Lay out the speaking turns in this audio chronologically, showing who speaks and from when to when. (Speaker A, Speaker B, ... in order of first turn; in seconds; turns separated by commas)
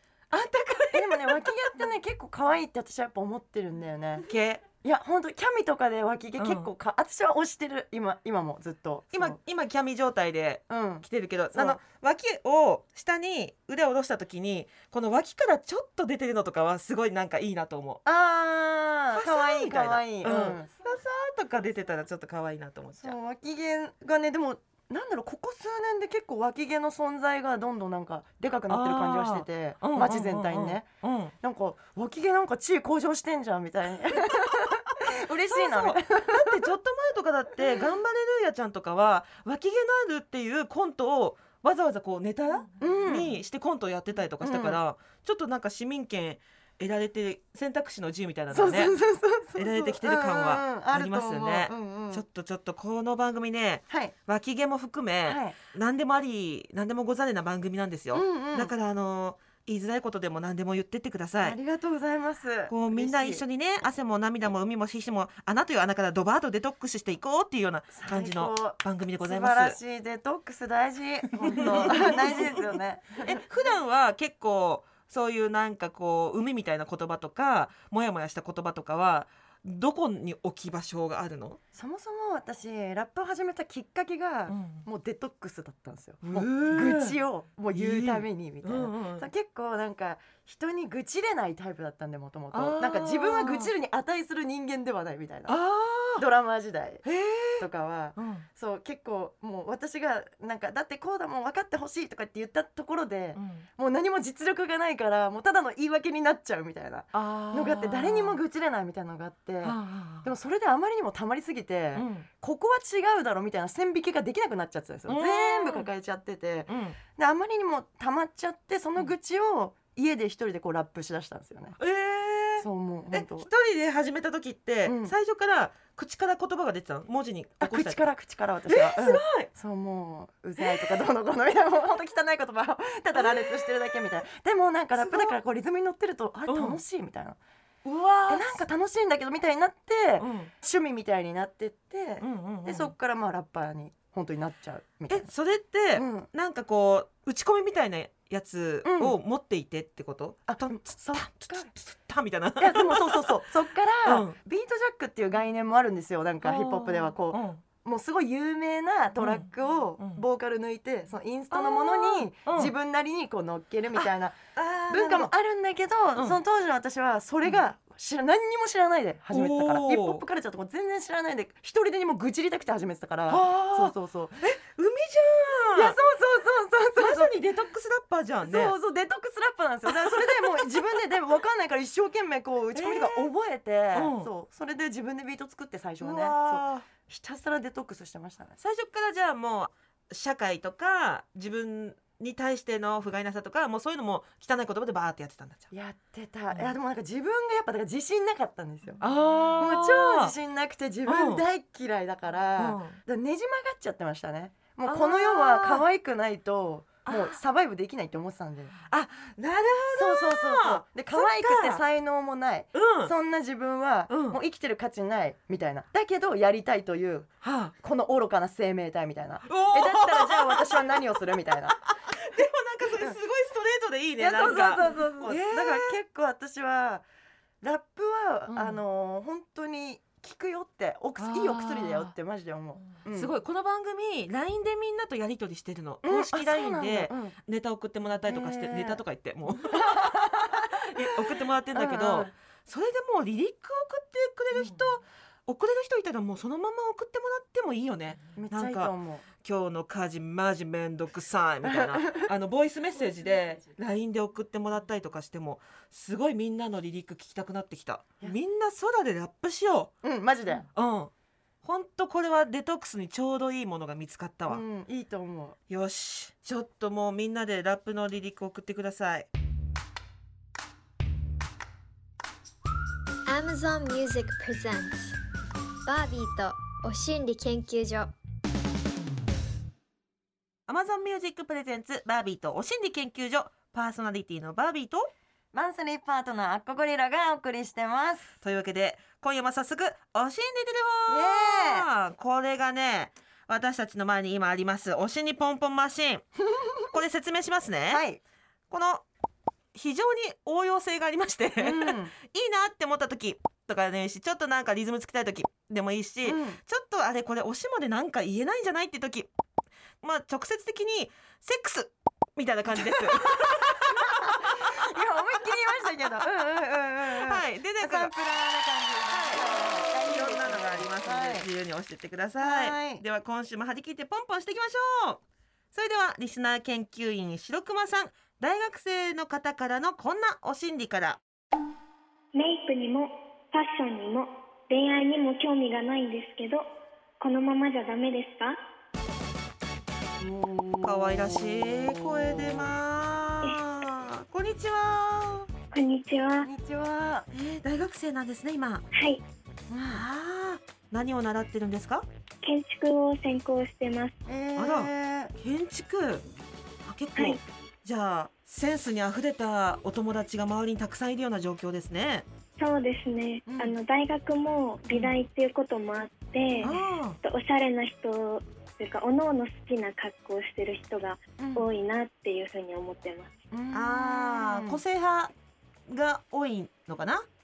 Speaker A: 0.3-1.5, Speaker B: 0.9-4.3, Speaker A: 4.3-4.7, Speaker B: 4.8-9.4, Speaker A: 6.4-6.7, Speaker A: 9.1-18.0, Speaker B: 10.7-11.8, Speaker B: 18.1-20.7, Speaker A: 19.1-23.2, Speaker B: 23.0-30.9, Speaker A: 28.7-31.3, Speaker B: 31.4-36.6, Speaker A: 35.5-48.9, Speaker B: 42.8-43.3, Speaker B: 44.4-44.8, Speaker B: 48.5-52.2, Speaker A: 49.6-61.6, Speaker B: 55.3-55.6, Speaker B: 58.1-58.7, Speaker B: 61.4-63.4, Speaker A: 62.7-69.8, Speaker B: 67.9-73.4, Speaker A: 71.4-72.7, Speaker A: 73.2-81.6, Speaker B: 81.7-95.6, Speaker A: 84.5-84.8, Speaker A: 86.2-87.2, Speaker A: 87.7-89.3, Speaker A: 92.5-93.7, Speaker A: 95.5-96.3, Speaker B: 96.2-121.8, Speaker A: 97.0-98.5, Speaker A: 103.3-103.7, Speaker A: 107.1-108.4, Speaker A: 109.6-110.3, Speaker A: 111.9-112.3, Speaker A: 115.1-115.9, Speaker A: 116.7-117.0, Speaker A: 121.8-128.0, Speaker B: 122.6-123.5, Speaker B: 124.8-125.2, Speaker B: 127.6-137.4, Speaker A: 128.7-129.5, Speaker A: 130.6-131.0, Speaker A: 133.2-134.2, Speaker A: 135.0-135.4, Speaker A: 136.5-136.8, Speaker A: 137.8-138.5, Speaker B: 138.3-145.3, Speaker A: 140.2-140.5, Speaker A: 142.2-142.9, Speaker A: 145.1-153.4, Speaker B: 145.9-146.3, Speaker B: 148.8-149.2, Speaker B: 150.5-151.7, Speaker B: 152.6-174.4, Speaker A: 154.1-154.4, Speaker A: 156.4-157.7, Speaker A: 159.2-160.2, Speaker A: 161.5-162.7, Speaker A: 163.9-165.3, Speaker A: 166.2-166.4, Speaker A: 169.3-170.2, Speaker A: 173.3-176.0, Speaker B: 175.7-177.3, Speaker A: 177.0-178.8, Speaker B: 178.4-188.6, Speaker A: 179.9-180.6, Speaker A: 182.7-183.3, Speaker A: 183.9-184.3, Speaker A: 186.0-186.9, Speaker A: 188.6-195.7, Speaker B: 195.7-199.0, Speaker A: 199.0-200.3, Speaker B: 199.6-208.8, Speaker A: 201.1-201.4, Speaker A: 202.6-203.0, Speaker A: 204.9-205.8, Speaker A: 207.1-207.4, Speaker A: 208.9-211.8, Speaker B: 209.9-221.8, Speaker A: 212.8-213.1, Speaker A: 214.1-214.4, Speaker A: 217.4-217.8, Speaker A: 219.5-221.0, Speaker A: 221.8-226.0, Speaker B: 224.2-227.1, Speaker B: 227.6-233.3, Speaker A: 228.5-228.8, Speaker A: 231.2-232.2, Speaker A: 232.9-259.9, Speaker B: 236.0-237.4, Speaker B: 238.3-239.0, Speaker B: 239.7-242.3, Speaker B: 248.3-249.3, Speaker B: 251.6-252.3, Speaker B: 260.0-260.7, Speaker A: 260.7-261.1, Speaker A: 261.6-264.6, Speaker B: 264.5-265.6, Speaker A: 265.7-269.3, Speaker C: 273.3-275.1, Speaker C: 275.9-278.1, Speaker A: 280.7-285.1, Speaker B: 285.5-288.4, Speaker A: 288.4-296.3, Speaker B: 291.1-291.9, Speaker B: 296.4-296.9, Speaker A: 296.9-298.0, Speaker B: 297.9-298.2, Speaker A: 298.7-299.0, Speaker A: 299.7-309.3, Speaker B: 301.6-302.1, Speaker B: 306.2-306.6, Speaker A: 310.0-315.0, Speaker B: 312.7-321.5, Speaker A: 317.1-318.1, Speaker A: 319.1-325.2, Speaker B: 322.4-323.0, Speaker A: 325.7-331.2, Speaker D: 332.3-336.7, Speaker D: 337.2-338.6, Speaker B: 340.2-342.7, Speaker A: 340.8-345.5, Speaker D: 345.7-346.5, Speaker B: 346.4-347.3, Speaker A: 347.3-348.9, Speaker D: 348.9-349.2, Speaker B: 349.7-350.1, Speaker A: 349.8-352.1, Speaker D: 352.4-354.2, Speaker B: 354.3-355.3, Speaker A: 354.6-356.2, Speaker A: 356.9-362.3, Speaker D: 357.2-357.4, Speaker D: 362.6-373.3, Speaker B: 363.5-363.8, Speaker A: 364.9-365.2, Speaker A: 366.6-367.2, Speaker B: 371.4-371.7, Speaker B: 373.5-374.8, Speaker A: 373.7-375.3, Speaker A: 375.9-377.3